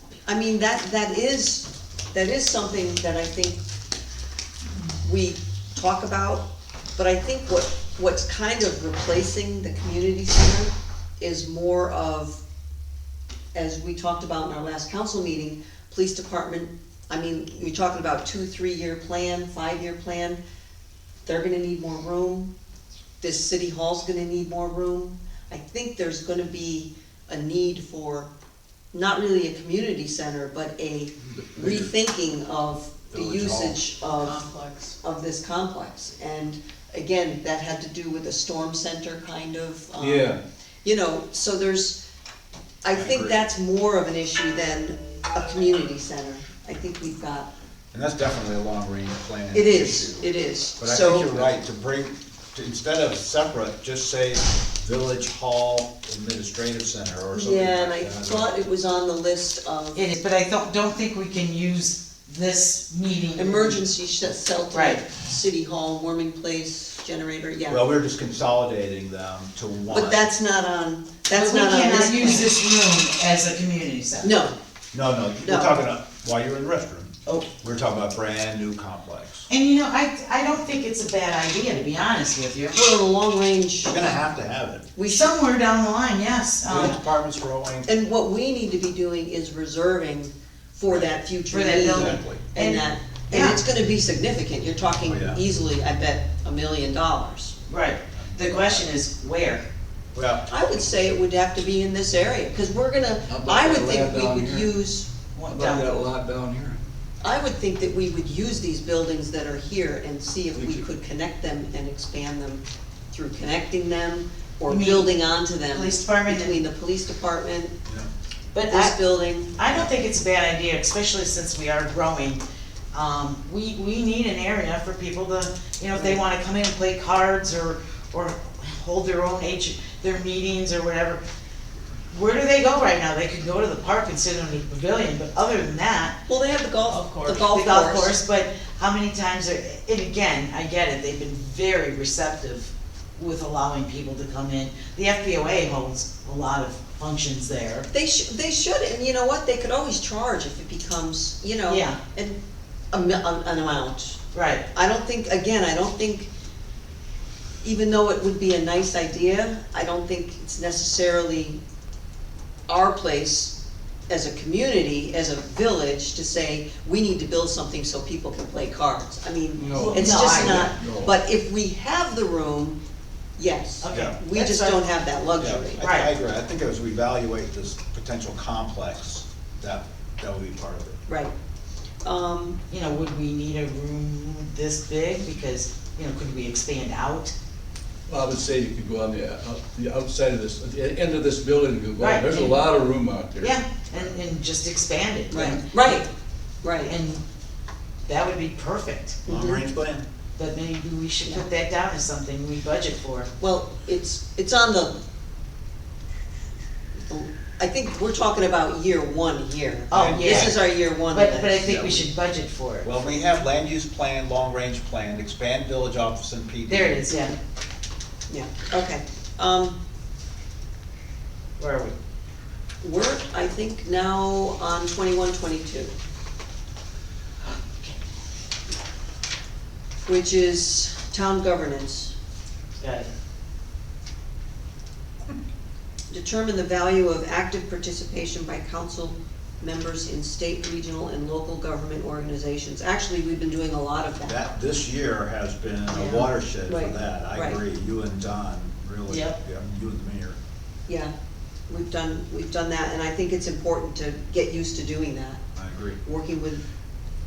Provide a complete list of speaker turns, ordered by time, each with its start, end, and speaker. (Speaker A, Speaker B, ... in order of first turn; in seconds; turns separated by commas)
Speaker A: 0.3-3.6, Speaker A: 5.0-12.4, Speaker A: 13.5-20.4, Speaker A: 21.2-22.5, Speaker A: 23.2-28.3, Speaker A: 28.9-34.4, Speaker B: 31.6-31.9, Speaker C: 33.1-33.8, Speaker D: 34.2-35.0, Speaker A: 35.0-42.0, Speaker B: 40.0-40.4, Speaker A: 42.8-47.5, Speaker C: 42.9-43.4, Speaker C: 47.9-58.5, Speaker A: 49.5-51.5, Speaker A: 57.3-60.0, Speaker D: 60.0-63.8, Speaker A: 63.4-67.8, Speaker D: 64.7-65.0, Speaker C: 67.7-70.3, Speaker A: 69.9-72.5, Speaker D: 71.3-74.3, Speaker A: 74.2-74.6, Speaker C: 74.9-79.5, Speaker A: 75.4-75.8, Speaker D: 79.5-82.8, Speaker A: 82.7-84.2, Speaker C: 83.9-84.9, Speaker A: 85.0-85.3, Speaker D: 85.1-87.0, Speaker C: 86.7-87.9, Speaker A: 86.7-87.0, Speaker A: 87.9-97.5, Speaker D: 91.5-93.6, Speaker C: 91.7-92.4, Speaker C: 95.0-95.4, Speaker D: 97.7-99.7, Speaker C: 98.2-98.8, Speaker C: 100.1-100.5, Speaker A: 100.5-105.1, Speaker B: 103.3-104.7, Speaker D: 105.4-106.0, Speaker B: 105.4-106.8, Speaker A: 107.2-117.8, Speaker B: 110.5-110.8, Speaker D: 114.7-116.6, Speaker D: 118.5-119.0, Speaker A: 118.7-119.6, Speaker D: 119.5-122.4, Speaker D: 122.9-131.2, Speaker A: 126.0-126.2, Speaker D: 132.1-136.2, Speaker A: 136.3-138.2, Speaker D: 136.9-147.9, Speaker A: 147.9-152.4, Speaker D: 151.7-152.0, Speaker A: 152.9-154.2, Speaker D: 154.3-154.6, Speaker A: 154.7-156.3, Speaker A: 157.6-161.6, Speaker A: 162.7-163.6, Speaker A: 164.1-172.8, Speaker B: 169.6-171.1, Speaker D: 169.7-170.7, Speaker A: 173.4-175.8, Speaker D: 173.8-174.8, Speaker C: 175.4-181.0, Speaker D: 175.8-176.1, Speaker A: 181.1-181.3, Speaker A: 182.0-182.6, Speaker D: 182.7-187.3, Speaker B: 188.1-194.1, Speaker D: 192.0-192.6, Speaker D: 193.4-196.0, Speaker A: 195.3-196.1, Speaker A: 196.6-196.9, Speaker D: 196.8-197.2, Speaker D: 198.1-199.2, Speaker C: 199.3-200.1, Speaker A: 199.3-199.7, Speaker D: 200.4-203.3, Speaker A: 203.4-205.0, Speaker A: 207.0-211.6, Speaker D: 209.9-212.9, Speaker C: 209.9-210.5, Speaker C: 211.6-212.1, Speaker C: 212.8-217.0, Speaker D: 216.7-217.3, Speaker A: 218.3-219.8, Speaker D: 221.6-221.9, Speaker A: 222.8-225.9, Speaker D: 227.4-228.0, Speaker A: 230.1-232.2, Speaker D: 232.8-233.1, Speaker A: 236.1-244.4, Speaker C: 244.3-250.4, Speaker D: 245.9-246.3, Speaker A: 246.7-247.6, Speaker D: 249.1-249.4, Speaker A: 250.9-251.1, Speaker A: 251.7-255.4, Speaker C: 255.6-256.0, Speaker A: 256.0-256.6